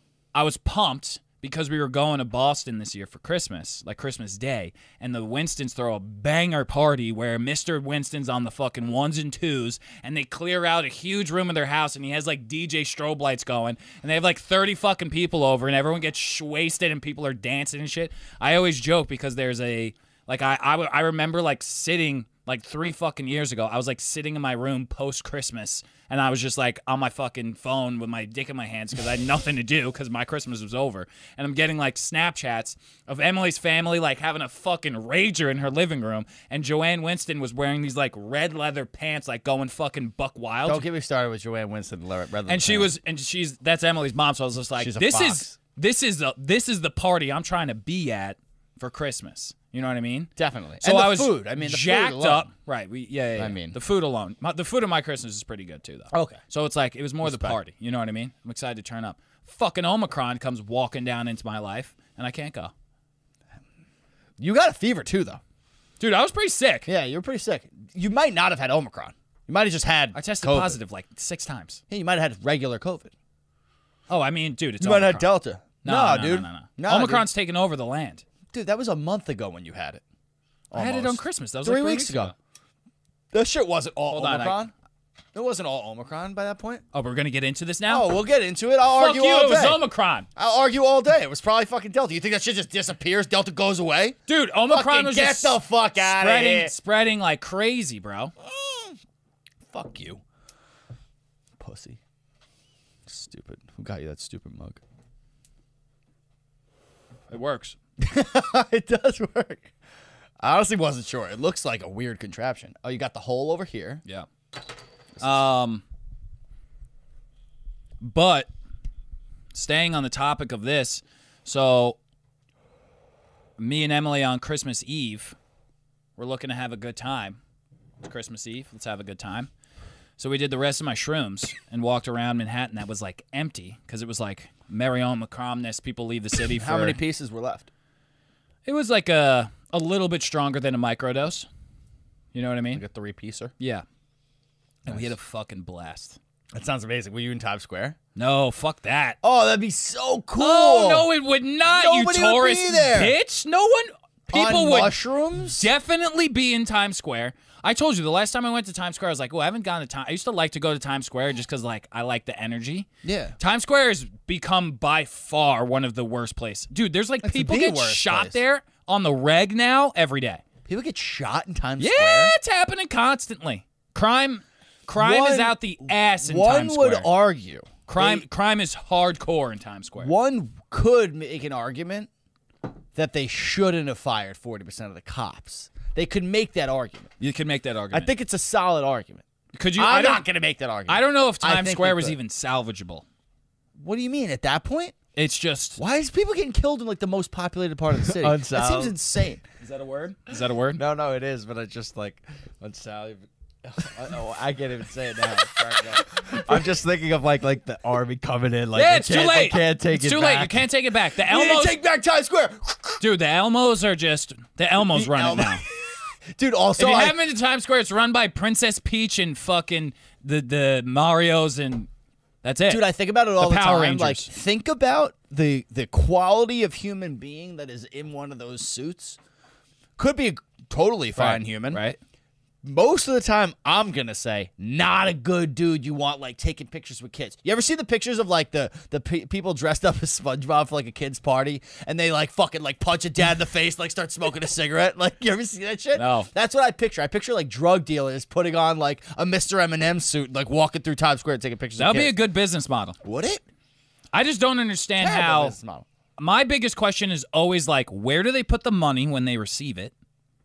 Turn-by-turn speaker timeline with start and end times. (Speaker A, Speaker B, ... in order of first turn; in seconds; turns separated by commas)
Speaker A: 0.3-40.9, Speaker B: 40.7-42.9, Speaker A: 42.5-62.7, Speaker B: 44.8-45.5, Speaker B: 50.4-52.5, Speaker B: 53.4-53.8, Speaker B: 56.1-56.4, Speaker B: 57.2-57.6, Speaker B: 64.4-65.4, Speaker A: 66.0-66.9, Speaker B: 66.9-70.8, Speaker A: 70.1-71.8, Speaker B: 71.9-73.1, Speaker A: 74.1-75.3, Speaker B: 74.8-77.3, Speaker A: 75.8-78.2, Speaker B: 78.5-80.0, Speaker B: 80.7-82.3, Speaker A: 80.7-82.3, Speaker B: 83.3-84.7, Speaker A: 84.1-84.6, Speaker B: 85.3-86.8, Speaker A: 86.9-88.1, Speaker B: 87.9-89.8, Speaker A: 89.0-90.3, Speaker B: 90.4-94.2, Speaker A: 94.3-98.3, Speaker B: 94.7-96.7, Speaker B: 98.4-99.0, Speaker B: 99.7-100.2, Speaker B: 101.6-102.0, Speaker B: 103.1-104.8, Speaker A: 107.3-107.8, Speaker B: 108.0-109.7, Speaker B: 110.4-114.0, Speaker B: 115.2-115.4, Speaker A: 115.2-115.8, Speaker A: 118.0-118.5, Speaker A: 119.5-122.0, Speaker A: 123.6-125.4, Speaker A: 126.2-127.4, Speaker A: 128.0-129.5, Speaker A: 130.2-137.0, Speaker B: 136.5-137.7, Speaker A: 138.7-141.5, Speaker A: 142.3-142.8, Speaker B: 142.7-143.5, Speaker A: 143.6-143.8, Speaker A: 144.8-146.2, Speaker B: 146.5-148.0, Speaker A: 148.2-149.2, Speaker B: 149.2-151.1, Speaker A: 150.4-162.9, Speaker B: 151.7-153.2, Speaker B: 154.3-155.7, Speaker B: 163.0-163.4, Speaker A: 163.4-170.4, Speaker B: 167.2-168.4, Speaker B: 170.7-172.3, Speaker A: 171.8-177.1, Speaker B: 175.0-178.3, Speaker A: 177.9-180.1, Speaker B: 180.0-182.1, Speaker B: 182.9-187.1, Speaker A: 187.2-188.1, Speaker B: 187.9-189.2, Speaker A: 189.5-190.3, Speaker B: 189.8-192.2, Speaker A: 190.9-193.1, Speaker B: 193.8-195.0, Speaker A: 195.2-195.8, Speaker B: 195.8-199.4, Speaker C: 198.1-199.0, Speaker A: 199.6-200.8, Speaker C: 200.7-210.7, Speaker B: 206.3-206.7, Speaker A: 208.7-211.8, Speaker B: 211.2-213.0, Speaker A: 213.0-215.6, Speaker B: 214.8-217.2, Speaker A: 216.8-221.9, Speaker A: 222.4-224.3, Speaker B: 222.7-229.2, Speaker B: 230.0-231.8, Speaker A: 231.2-232.0, Speaker B: 232.6-252.2, Speaker A: 245.9-246.3, Speaker A: 251.8-253.0, Speaker B: 253.0-253.4, Speaker A: 254.1-255.6, Speaker B: 255.0-255.8, Speaker A: 256.2-259.9